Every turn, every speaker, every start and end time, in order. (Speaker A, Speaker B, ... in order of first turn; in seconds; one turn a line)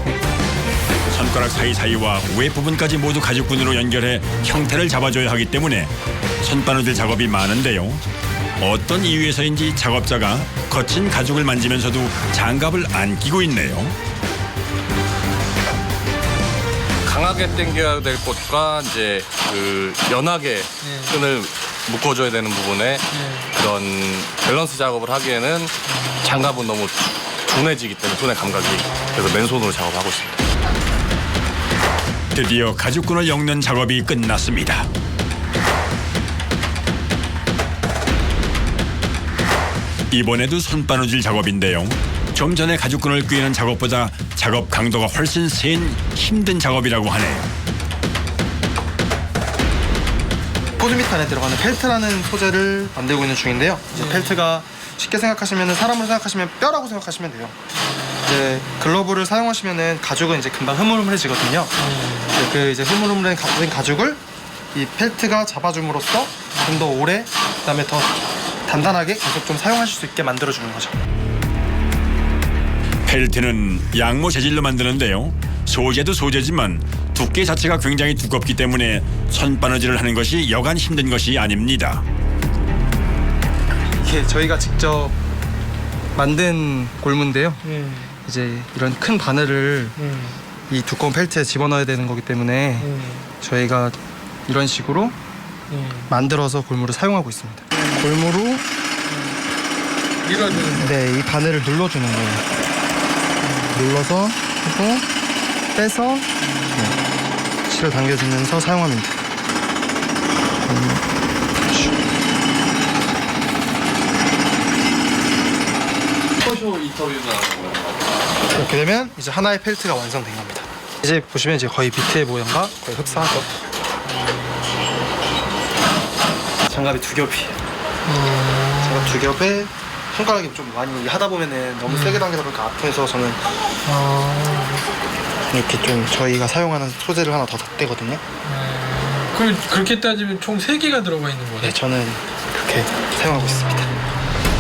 Speaker A: 1.1-8.0
Speaker A: 8.6-14.0
Speaker B: 17.1-30.4
Speaker C: 20.8-21.2
Speaker C: 23.1-23.5
Speaker C: 28.8-29.3
Speaker A: 32.3-34.9
Speaker A: 40.1-47.5
Speaker D: 50.8-57.6
Speaker C: 54.0-54.4
Speaker C: 57.8-58.9
Speaker D: 58.2-64.2
Speaker C: 61.8-62.4
Speaker D: 64.7-71.0
Speaker C: 66.5-66.8
Speaker A: 73.1-82.0
Speaker D: 84.0-85.2
Speaker D: 86.1-87.6
Speaker C: 87.7-88.2
Speaker D: 88.2-90.0
Speaker C: 90.1-90.4
Speaker D: 90.7-95.2
Speaker C: 92.8-93.3
Speaker C: 95.7-96.1
Speaker D: 96.1-98.7
Speaker C: 97.7-98.1
Speaker C: 99.1-99.4
Speaker C: 100.2-100.9
Speaker D: 100.8-102.5
Speaker C: 103.4-103.8
Speaker D: 103.7-105.0
Speaker D: 105.7-107.0
Speaker C: 106.4-107.5
Speaker D: 107.6-109.2
Speaker D: 110.6-111.0
Speaker B: 116.4-117.9
Speaker D: 118.5-123.5
Speaker C: 124.1-124.8
Speaker D: 126.6-127.6
Speaker C: 128.1-129.2
Speaker D: 128.8-133.4
Speaker C: 131.9-132.2
Speaker C: 133.8-134.8
Speaker D: 135.5-138.2
Speaker C: 138.4-141.8
Speaker D: 141.6-144.0